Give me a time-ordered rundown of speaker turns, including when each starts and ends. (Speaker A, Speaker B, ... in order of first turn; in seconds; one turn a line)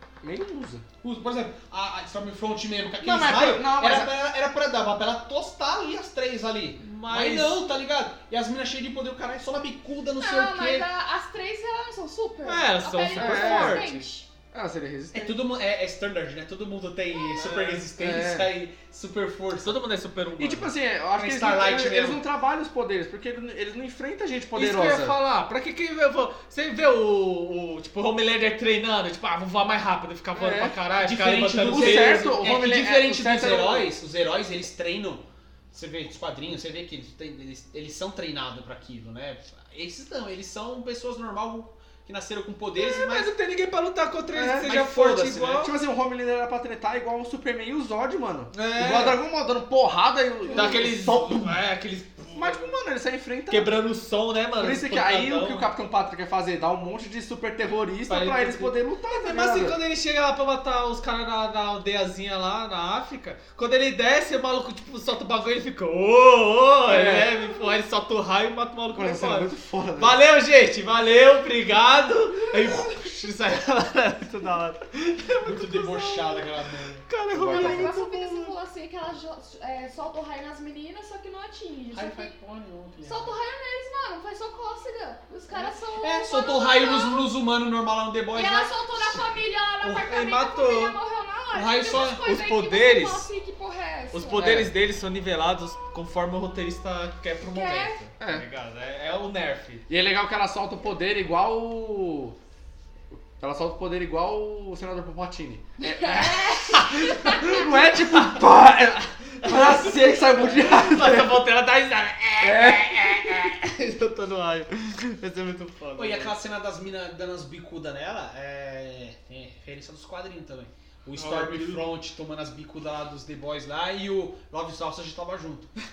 Speaker A: 0.2-0.8
Speaker B: 1.0-10.9
Speaker A: 3.0-4.1
Speaker C: 6.8-7.6
Speaker D: 10.2-14.3
Speaker C: 12.4-14.1
Speaker A: 13.0-13.8
Speaker A: 14.5-15.4
Speaker B: 15.1-19.8
Speaker C: 17.4-17.8
Speaker A: 18.0-18.5
Speaker C: 19.6-20.7
Speaker A: 20.4-25.2
Speaker B: 21.1-22.2
Speaker C: 24.5-32.4
Speaker A: 30.3-30.8
Speaker B: 30.9-43.3
Speaker A: 31.7-33.9
Speaker C: 42.8-45.7
Speaker A: 44.3-44.7
Speaker B: 44.6-45.6
Speaker A: 45.5-51.6
Speaker C: 48.5-49.2
Speaker C: 50.5-52.7
Speaker A: 52.3-53.8
Speaker C: 53.5-55.7
Speaker A: 54.6-59.8
Speaker C: 58.1-76.5
Speaker A: 66.9-67.4
Speaker A: 68.9-70.2
Speaker B: 75.4-77.0
Speaker C: 77.1-78.5
Speaker A: 77.3-77.9
Speaker D: 77.4-82.3
Speaker B: 81.9-83.3
Speaker D: 83.0-87.3
Speaker B: 85.5-89.2
Speaker D: 88.3-94.5
Speaker C: 89.8-91.0
Speaker B: 91.5-92.2
Speaker C: 91.9-93.3
Speaker C: 94.1-99.8
Speaker A: 94.4-94.7
Speaker D: 97.5-98.0
Speaker A: 98.2-98.4
Speaker A: 99.9-102.3
Speaker A: 103.4-111.4
Speaker D: 105.8-107.6
Speaker C: 108.0-108.3
Speaker C: 109.4-116.3
Speaker A: 112.4-113.5
Speaker B: 116.0-125.7
Speaker C: 121.2-121.8